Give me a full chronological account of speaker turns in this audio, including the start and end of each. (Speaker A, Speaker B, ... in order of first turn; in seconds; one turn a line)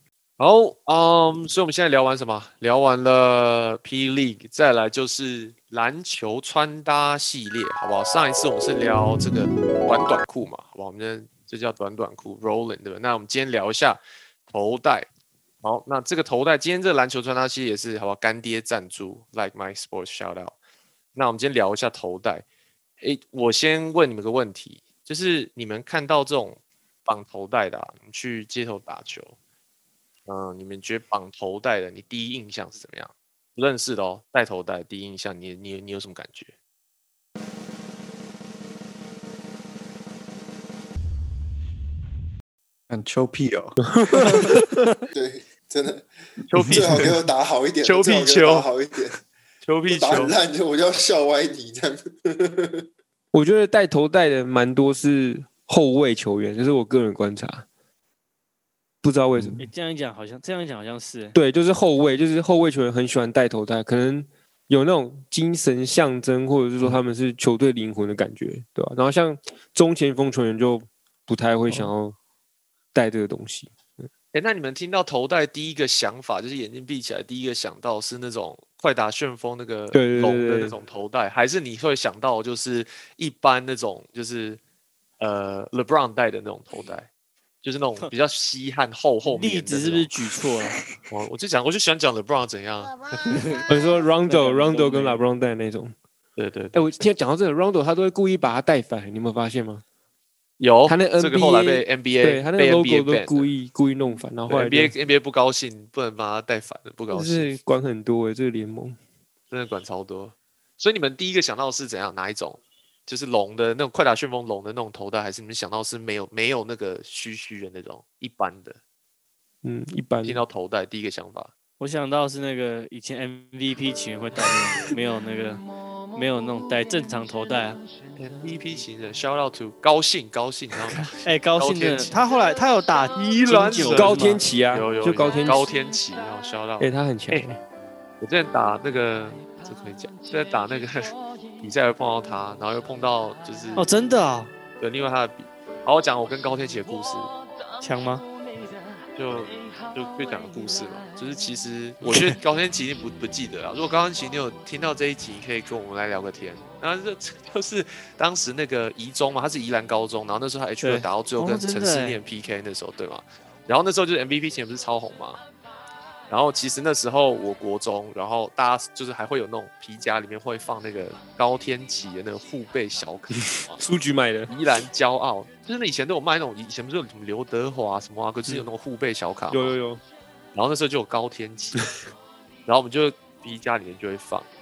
Speaker A: 0.4-15.1
Speaker A: 15.6-20.6
Speaker A: 21.1-22.4
Speaker A: 23.0-29.4
Speaker A: 30.2-36.5
Speaker B: 42.9-44.6
Speaker C: 43.8-45.0
Speaker D: 45.1-46.1
Speaker A: 46.5-47.1
Speaker B: 46.6-47.0
Speaker D: 46.6-49.2
Speaker A: 47.8-48.7
Speaker A: 49.6-50.3
Speaker D: 49.9-52.8
Speaker C: 53.3-57.6
Speaker C: 59.0-59.6
Speaker B: 59.3-59.6
Speaker E: 59.6-61.4
Speaker C: 61.3-72.1
Speaker C: 72.9-74.1
Speaker A: 74.3-84.6
Speaker C: 79.9-80.8
Speaker A: 85.2-87.1
Speaker A: 87.6-90.1
Speaker E: 89.2-90.8
Speaker A: 91.1-93.3
Speaker E: 93.3-93.7
Speaker C: 93.7-95.9
Speaker E: 94.2-95.2
Speaker A: 96.3-96.8
Speaker C: 96.7-99.8
Speaker A: 100.6-103.5
Speaker C: 100.8-104.9
Speaker A: 104.5-107.5
Speaker C: 107.1-109.0
Speaker A: 109.5-118.8
Speaker C: 119.6-120.4
Speaker A: 120.2-121.5
Speaker E: 121.8-127.8
Speaker A: 128.2-132.1
Speaker E: 130.9-134.5
Speaker C: 133.3-135.7
Speaker A: 133.4-137.5
Speaker C: 136.8-137.6
Speaker A: 138.2-143.9
Speaker E: 143.8-144.5
Speaker A: 144.8-147.3
Speaker E: 147.8-148.2
Speaker A: 149.1-165.4
Speaker E: 160.8-162.2
Speaker A: 166.3-173.8
Speaker C: 173.6-174.5
Speaker A: 174.5-179.8
Speaker C: 179.5-180.0
Speaker A: 180.5-181.9
Speaker A: 182.7-184.5